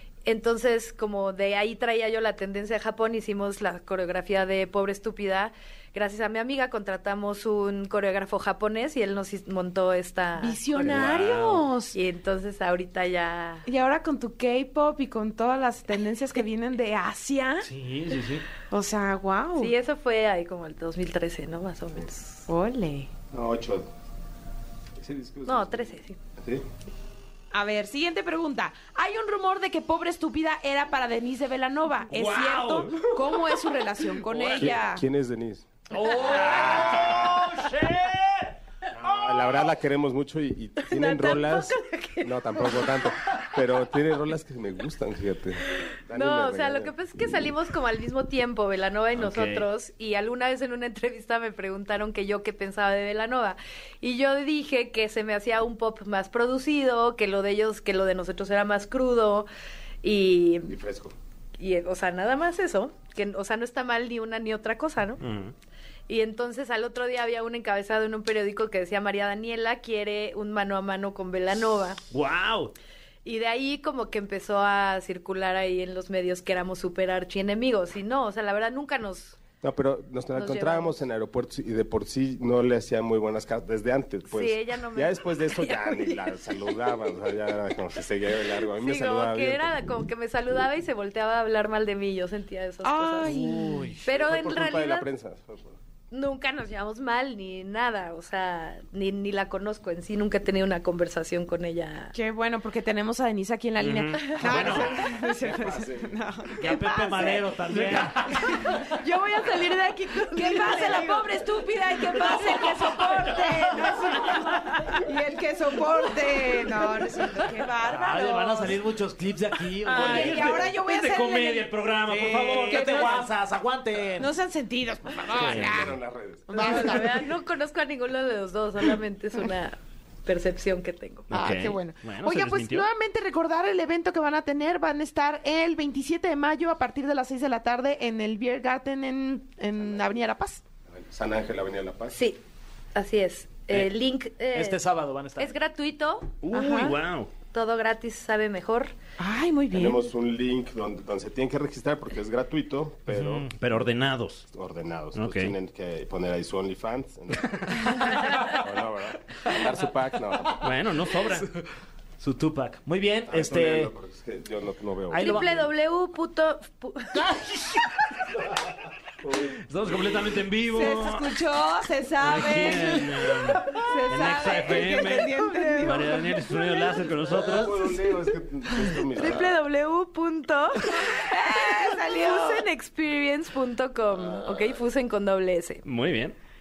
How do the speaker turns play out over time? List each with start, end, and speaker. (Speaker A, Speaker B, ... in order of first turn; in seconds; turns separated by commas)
Speaker A: 0.2-11.0, Speaker B: 10.4-12.0, Speaker C: 10.8-11.7, Speaker A: 11.9-13.6, Speaker B: 13.7-17.7, Speaker D: 17.6-18.4, Speaker B: 18.7-19.7, Speaker A: 19.6-22.5, Speaker B: 22.5-23.1, Speaker E: 23.3-23.9, Speaker E: 25.0-26.6, Speaker A: 25.4-26.2, Speaker B: 27.5-35.0, Speaker C: 32.1-33.2, Speaker E: 34.5-35.7, Speaker D: 35.9-38.4, Speaker C: 36.0-38.1, Speaker E: 39.0-46.9, Speaker A: 40.9-43.3, Speaker A: 46.1-59.5, Speaker C: 49.1-49.6, Speaker A: 60.0-60.8, Speaker E: 60.7-61.1, Speaker A: 61.6-65.2, Speaker C: 65.2-65.5, Speaker A: 66.1-72.0, Speaker C: 72.1-72.7, Speaker A: 73.2-79.4, Speaker E: 79.6-89.7, Speaker A: 80.3-81.0, Speaker A: 84.3-86.2, Speaker A: 88.8-93.5, Speaker B: 92.8-93.9, Speaker D: 93.5-93.9, Speaker A: 94.0-95.0, Speaker E: 94.0-95.8, Speaker A: 96.1-102.1, Speaker B: 102.1-118.8, Speaker C: 103.8-105.0, Speaker D: 104.5-104.8, Speaker E: 104.7-106.2, Speaker D: 106.6-108.7, Speaker A: 110.3-111.3, Speaker A: 112.4-112.7, Speaker D: 117.8-120.6, Speaker B: 119.8-123.3, Speaker C: 119.8-123.0, Speaker D: 122.0-124.3, Speaker B: 124.2-125.9, Speaker C: 125.3-125.8, Speaker E: 125.3-127.0, Speaker B: 126.5-127.2, Speaker A: 126.5-131.3, Speaker C: 131.3-132.9, Speaker B: 131.3-140.6, Speaker E: 140.9-142.2, Speaker A: 142.1-142.4, Speaker A: 142.9-144.8, Speaker D: 144.5-145.5, Speaker A: 145.4-146.9, Speaker C: 146.4-147.3, Speaker B: 146.5-146.9, Speaker A: 147.5-148.9, Speaker B: 149.2-150.0, Speaker E: 149.7-153.5, Speaker D: 153.1-153.5, Speaker C: 153.5-154.5, Speaker E: 154.5-160.7, Speaker C: 155.1-155.5, Speaker C: 160.6-161.5, Speaker D: 162.2-163.9, Speaker E: 163.3-165.6, Speaker D: 165.1-165.5, Speaker A: 165.1-167.4, Speaker D: 167.1-167.9, Speaker E: 169.2-169.6, Speaker C: 169.7-171.3, Speaker B: 170.7-176.4, Speaker C: 172.2-177.7, Speaker A: 175.4-177.1, Speaker E: 177.3-179.6, Speaker A: 179.1-185.8, Speaker B: 180.9-182.7, Speaker C: 185.8-186.3